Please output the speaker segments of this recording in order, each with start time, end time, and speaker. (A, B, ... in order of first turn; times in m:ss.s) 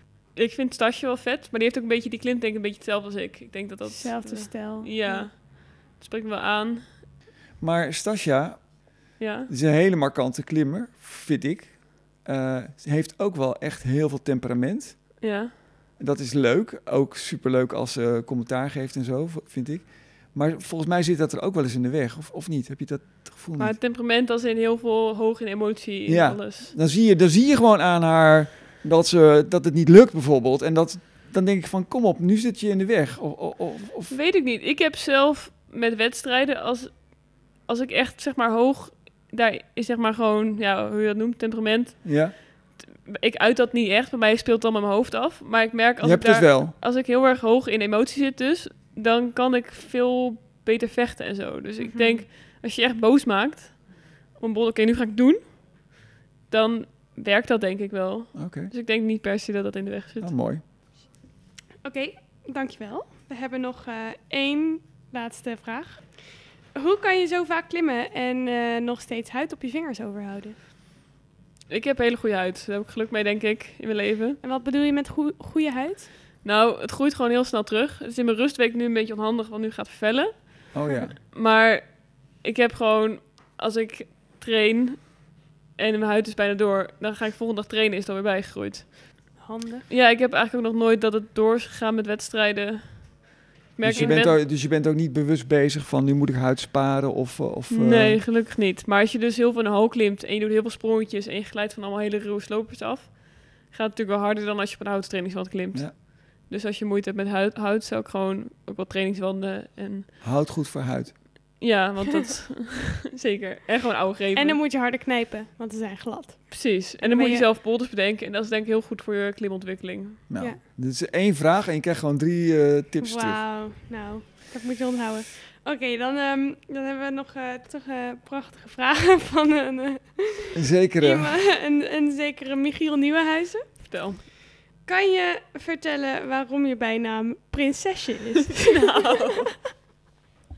0:00.3-0:07.0 A
0:03.8-0:05.3 B
0:07.6-0:08.9 C
0:09.2-0:09.5 A
0:09.5-0:15.3 C
0:15.2-0:15.5 A
0:16.0-0:23.7 C
0:23.6-0:26.7 A
0:26.1-0:34.1 C
0:34.1-0:55.9 A
0:42.0-0:42.3 C
0:46.0-0:46.7 C
0:51.8-0:52.2 B
0:56.5-1:00.4 A
0:58.3-0:58.7 C
1:00.2-1:00.6 C
1:01.8-1:10.6 B
1:11.7-1:14.4 A
1:14.4-1:16.1 B
1:16.4-1:34.4 A
1:20.7-1:21.2 C
1:29.4-1:29.9 B
1:33.8-1:38.2 C
1:33.9-1:34.2 B
1:37.7-1:50.1 A
1:50.2-1:51.6 C
1:51.6-1:54.6 A
1:54.4-1:57.4 B
1:56.5-2:00.2 A
2:00.3-2:03.4 C
2:03.0-2:13.9 B
2:10.5-2:11.4 C
2:13.9-2:14.2 A
2:14.8-2:18.7 B
2:18.5-2:19.5 A